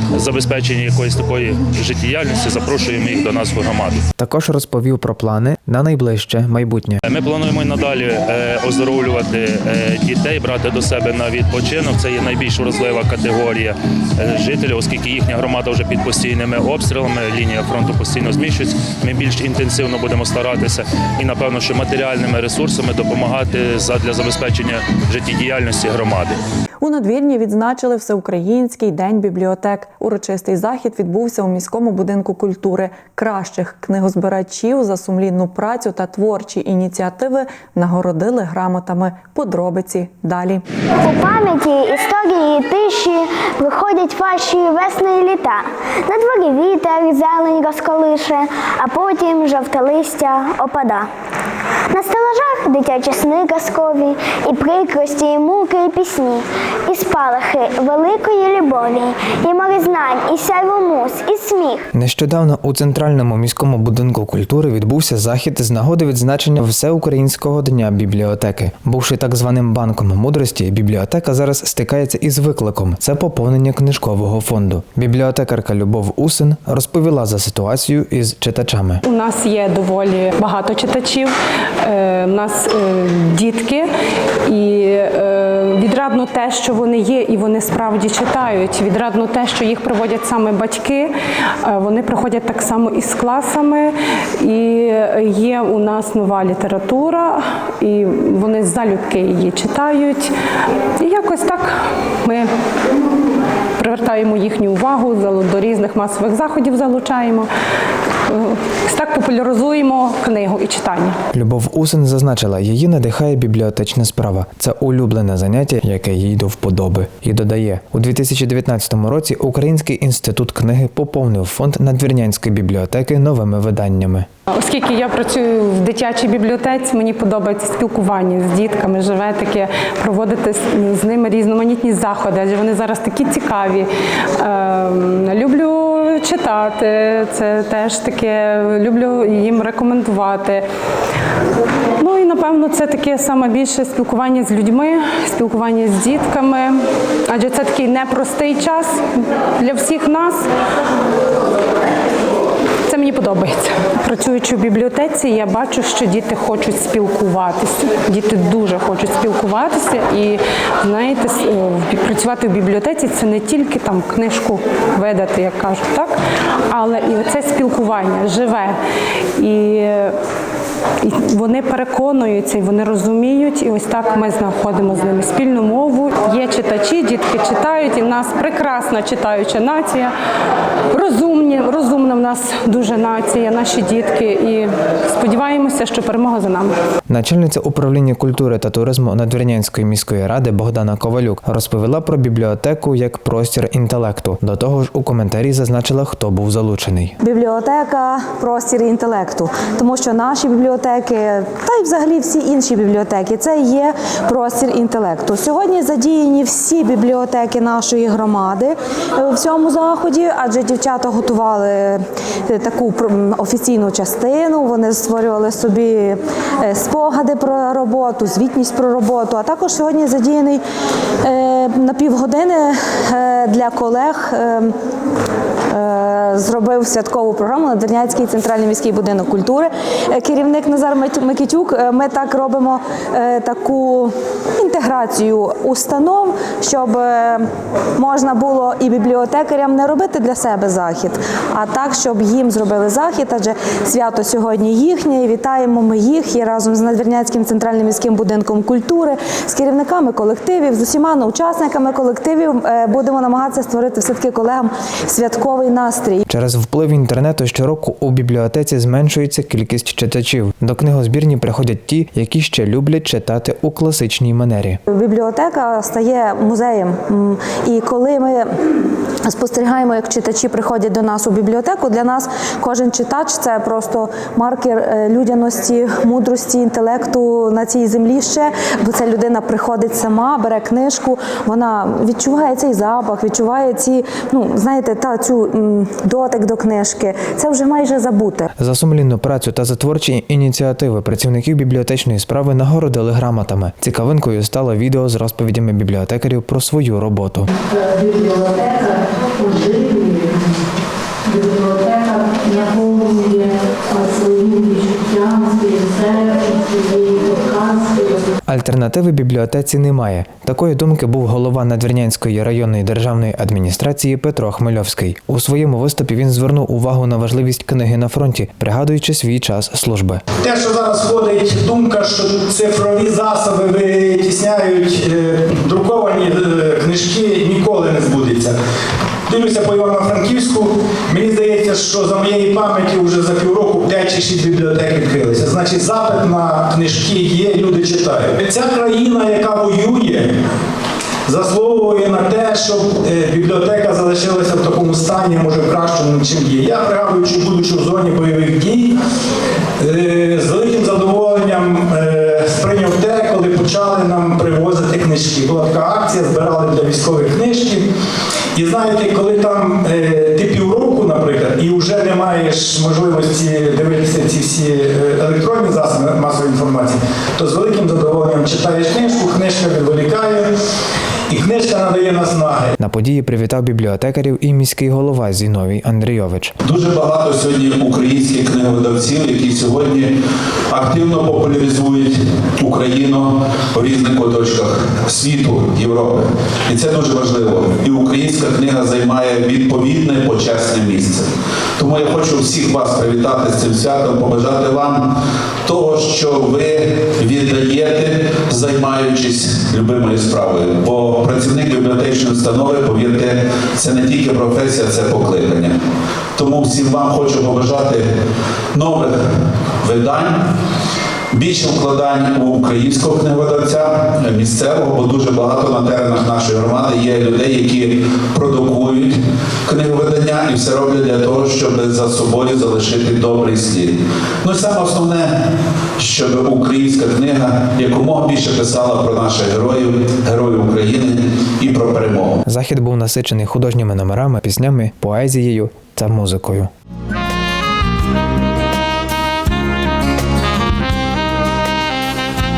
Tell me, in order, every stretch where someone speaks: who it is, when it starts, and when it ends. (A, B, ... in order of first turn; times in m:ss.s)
0:00.1-0:04.0 A
0:04.2-0:07.0 B
0:07.0-0:26.4 A
0:26.8-0:40.6 C
0:41.0-0:51.1 D
0:51.9-1:01.9 D
1:01.9-1:19.0 B
1:19.0-1:23.9 E
1:24.5-1:40.3 E
1:41.0-1:42.5 E
1:43.8-1:47.5 E
1:48.3-1:51.2 E
1:51.3-2:04.3 B
2:04.5-2:20.6 E
2:22.0-2:30.5 E
2:32.9-2:46.1 E
2:46.7-2:48.8 E
2:49.4-2:50.2 E
2:51.0-3:00.1 E
3:00.9-3:06.7 E
3:07.1-3:17.2 B
3:17.2-3:40.6 F
3:41.2-3:44.7 F
3:45.7-4:16.2 F
4:16.3-4:24.8 B
4:24.9-4:28.5 F
4:29.3-4:48.5 F
4:48.6-4:57.5 B
4:57.8-5:00.3 F
5:01.3-5:08.0 F
5:08.5-5:20.2 B
5:20.4-5:28.6 G
5:29.3-5:40.3 G
5:41.3-5:48.9 G
5:49.8-5:57.8 G
5:58.6-6:10.5 G
6:11.3-6:12.7 G
6:12.8-6:16.6 B
6:16.6-6:20.1 H
6:20.7-6:35.1 H
6:35.6-6:45.8 H
6:46.4-6:48.1 H
6:48.7-6:50.5 H
6:51.3-7:05.4 H
7:06.0-7:12.4 H
7:12.4-7:16.7 B